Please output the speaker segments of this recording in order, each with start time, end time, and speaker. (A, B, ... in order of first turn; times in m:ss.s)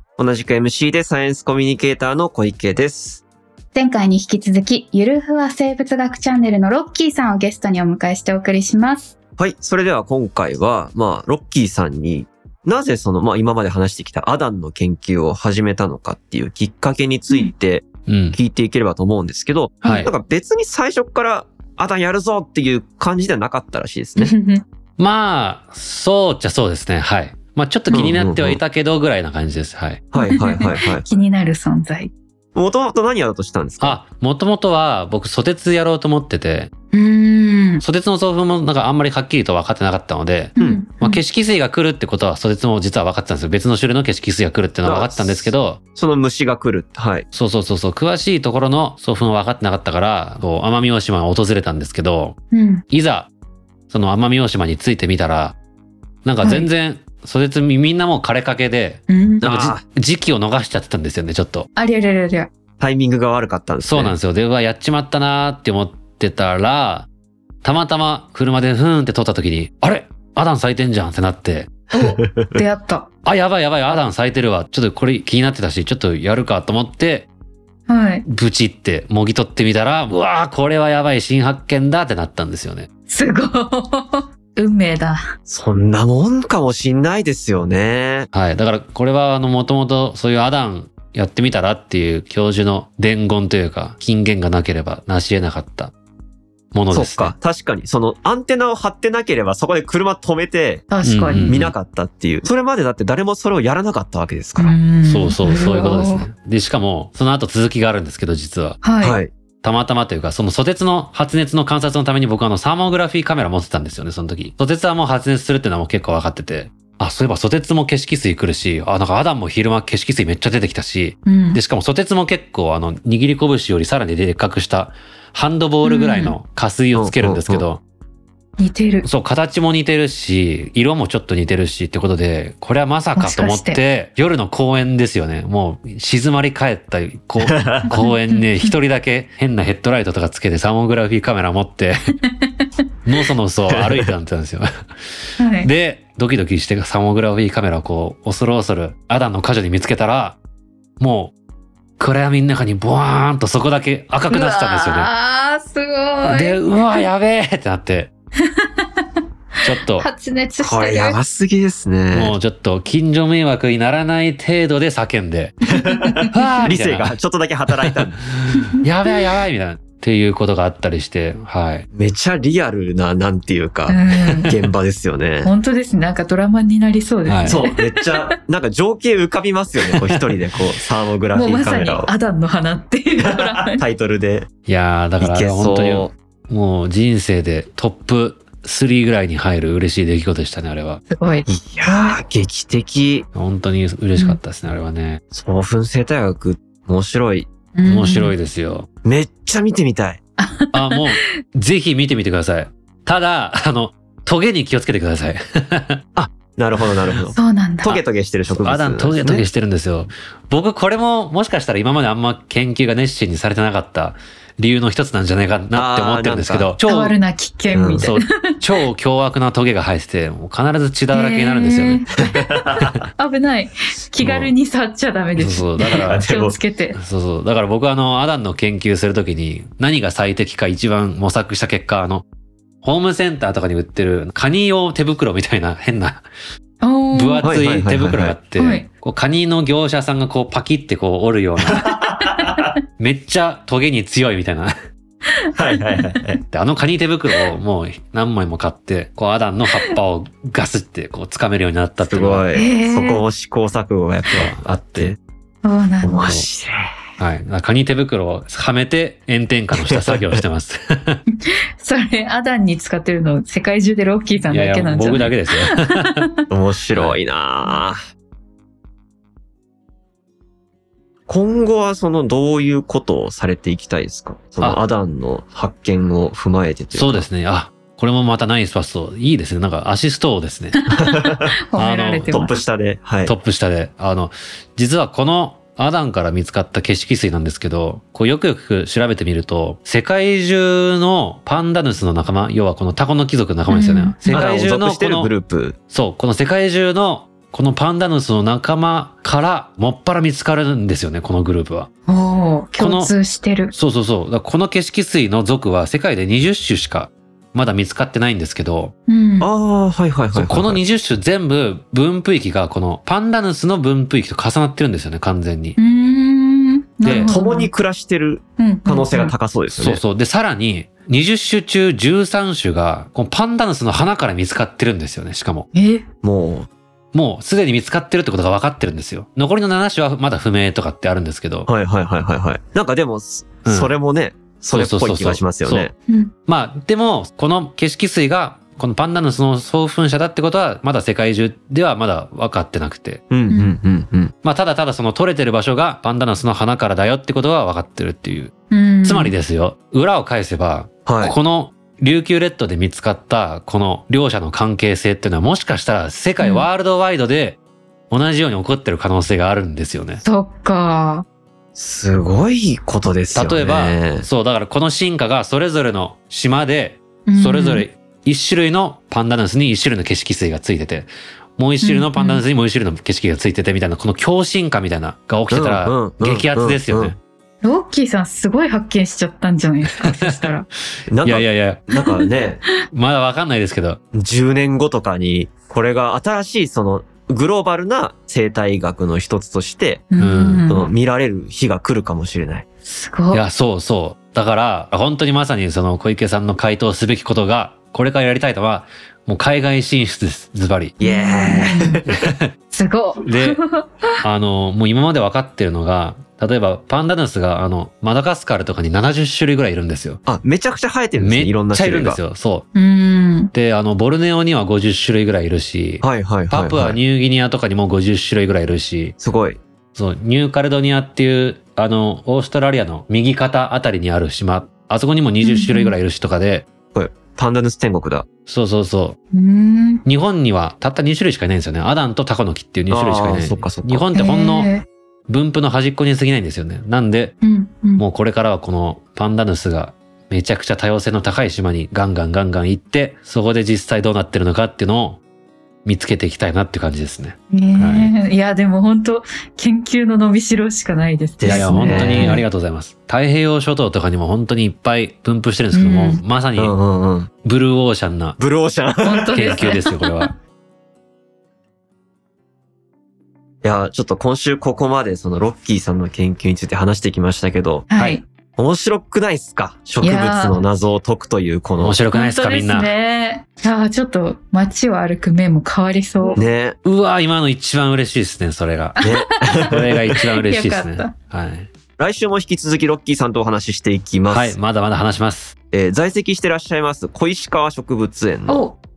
0:00.2-0:03.2 A
0:03.7-0:09.1 B
0:09.4-0:24.3 A
0:18.0-0:18.4 C
0:19.8-0:20.1 C
0:24.2-0:24.6 B
0:25.0-0:30.1 C
0:27.9-0:28.6 A
0:30.1-0:31.1 A
0:30.2-0:32.1 B
0:32.5-0:34.0 A
0:33.8-0:36.7 C
0:36.9-0:37.8 B
0:37.8-0:45.8 C
0:40.6-0:41.2 B
0:44.8-0:47.3 A
0:47.3-0:52.4 C
0:52.5-0:52.8 B
0:52.9-0:53.3 C
0:53.9-0:55.6 C
0:56.2-1:01.7 C
0:56.4-0:56.7 B
0:59.1-0:59.4 B
0:59.4-0:59.8 A
1:01.8-1:02.5 B
1:02.8-1:04.2 A
1:03.8-1:07.1 C
1:07.6-1:11.7 C
1:11.9-1:13.1 B
1:12.0-1:12.6 A
1:13.2-1:17.3 C
1:17.9-1:18.2 B
1:18.2-1:22.9 C
1:23.1-1:25.2 B
1:25.5-1:28.3 A
1:28.3-1:35.9 C
1:36.7-1:37.3 C
1:36.9-1:40.9 A
1:40.9-1:41.6 B
1:41.0-1:41.7 C
1:41.4-1:44.8 A
1:44.6-1:46.2 B
1:45.0-1:48.8 C
1:48.8-1:49.2 B
1:49.0-1:49.3 A
1:49.6-2:07.8 C
2:01.2-2:01.6 B
2:05.8-2:06.3 B
2:06.9-2:07.7 A
2:08.6-2:09.1 B
2:09.0-2:22.0 C
2:13.1-2:13.8 B
2:17.4-2:17.9 A
2:17.9-2:18.7 B
2:22.3-2:22.7 B
2:23.0-2:24.7 C
2:23.7-2:24.1 A
2:25.4-2:25.7 B
2:25.6-2:30.4 C
2:31.0-2:31.3 C
2:32.0-2:35.1 C
2:34.3-2:36.6 B
2:36.2-2:38.1 C
2:38.4-2:39.1 B
2:39.6-2:40.1 C
2:39.9-2:41.2 B
2:40.6-2:42.4 A
2:42.1-2:45.7 C
2:45.7-2:48.2 A
2:45.8-2:46.3 B
2:46.3-2:47.1 C
2:47.7-2:51.9 C
2:51.9-2:55.5 A
2:53.9-2:54.5 B
2:55.4-2:58.2 B
2:57.2-2:57.6 C
2:57.4-3:02.1 A
2:59.9-3:00.4 C
3:01.3-3:03.8 B
3:03.2-3:04.5 A
3:04.7-3:11.0 C
3:05.2-3:06.1 A
3:11.1-3:11.4 B
3:11.5-3:13.3 A
3:13.3-3:15.2 C
3:15.3-3:17.5 A
3:17.7-3:18.3 B
3:17.8-3:18.9 C
3:19.0-3:20.2 A
3:20.4-3:21.1 B
3:20.7-3:26.0 C
3:26.1-3:29.4 A
3:26.7-3:27.2 C
3:27.3-3:28.0 B
3:28.5-3:37.2 C
3:35.7-3:36.7 A
3:36.8-3:38.5 B
3:37.7-3:38.0 A
3:38.0-3:42.1 C
3:41.1-3:42.3 B
3:42.3-3:43.0 A
3:42.7-3:43.0 C
3:43.2-3:47.0 B
3:44.2-3:44.5 C
3:45.4-3:46.2 C
3:45.9-3:46.6 A
3:46.9-3:52.2 C
3:52.8-3:56.2 C
3:56.8-3:57.5 B
3:57.1-4:02.0 C
3:57.4-3:58.4 A
3:58.6-3:58.9 B
4:01.6-4:02.7 A
4:02.3-4:02.7 B
4:03.0-4:04.7 C
4:05.6-4:06.4 A
4:05.6-4:06.2 B
4:06.4-4:12.5 C
4:12.0-4:15.2 A
4:12.5-4:13.2 B
4:14.3-4:15.1 C
4:15.6-4:16.4 B
4:16.0-4:16.9 A
4:17.2-4:21.2 C
4:19.8-4:20.4 A
4:21.8-4:26.3 B
4:24.5-4:26.3 C
4:26.5-4:28.0 A
4:26.9-4:27.2 C
4:31.3-4:37.3 A
4:36.9-4:40.8 C
4:40.8-4:42.5 B
4:40.9-4:41.5 A
4:41.8-4:42.4 C
4:42.3-4:43.3 A
4:43.2-4:55.3 C
4:53.7-4:54.5 B
4:54.3-4:55.8 A
4:55.9-5:01.9 C
5:02.1-5:03.7 B
5:02.8-5:03.1 C
5:03.7-5:08.9 C
5:09.1-5:09.5 B
5:09.4-5:10.8 A
5:10.3-5:15.8 C
5:15.8-5:17.7 B
5:17.0-5:17.3 C
5:17.1-5:20.0 A
5:18.6-5:19.3 B
5:19.8-5:25.7 C
5:25.7-5:26.0 B
5:26.2-5:26.7 A
5:27.1-5:31.7 C
5:31.7-5:35.9 A
5:33.6-5:33.9 C
5:34.7-5:35.9 C
5:36.5-5:43.3 C
5:43.3-5:44.3 A
5:43.5-5:43.8 B
5:44.4-5:48.5 C
5:48.7-5:49.3 B
5:49.0-5:57.6 C
5:51.0-5:51.3 A
5:56.4-5:56.7 B
5:58.1-6:00.2 C
6:00.2-6:01.2 B
6:01.7-6:04.3 A
6:03.3-6:17.2 C
6:07.3-6:07.8 B
6:11.8-6:12.4 B
6:15.5-6:17.1 A
6:17.6-6:20.7 B
6:20.0-6:20.5 C
6:21.1-6:22.6 A
6:21.2-6:21.9 C
6:22.9-6:24.0 C
6:24.1-6:30.0 A
6:30.1-6:30.9 B
6:30.2-6:30.7 C
6:30.7-6:32.6 A
6:32.8-6:33.4 B
6:33.3-6:41.0 C
6:41.0-6:42.3 A
6:41.0-6:42.0 B
6:42.1-6:42.5 C
6:42.7-6:44.2 B
6:43.2-6:43.6 C
6:44.2-6:50.2 C
6:50.2-6:52.2 A
6:51.2-6:52.7 C
6:52.7-6:53.5 B
6:53.5-6:59.2 C
6:56.0-6:57.0 A
6:59.2-6:59.6 A
6:59.9-7:06.7 C
7:05.4-7:06.0 B
7:06.9-7:08.3 A
7:08.4-7:09.2 C
7:09.3-7:10.0 B
7:10.0-7:14.7 C
7:12.9-7:14.0 A
7:14.1-7:14.8 B
7:15.3-7:17.4 C
7:17.4-7:18.0 B
7:18.0-7:25.2 C
7:25.8-7:28.1 C
7:27.5-7:32.4 B
7:31.4-7:32.4 A
7:31.4-7:36.8 C
7:35.7-7:36.2 B
7:36.6-7:37.3 A
7:37.4-7:38.4 C
7:38.4-7:39.7 A
7:39.0-7:40.3 B
7:39.3-7:40.3 C
7:43.6-7:52.0 A
7:47.9-7:48.2 B
7:50.0-7:50.6 B
7:51.8-7:52.9 C
7:52.1-7:56.4 B
7:56.3-7:56.8 A
7:56.8-7:59.0 C
7:59.0-7:59.5 B
7:59.0-8:00.2 A
7:59.6-8:01.7 C
8:00.2-8:01.1 B
8:02.0-8:04.6 A
8:04.3-8:05.5 C
8:05.7-8:08.7 A
8:08.5-8:08.8 B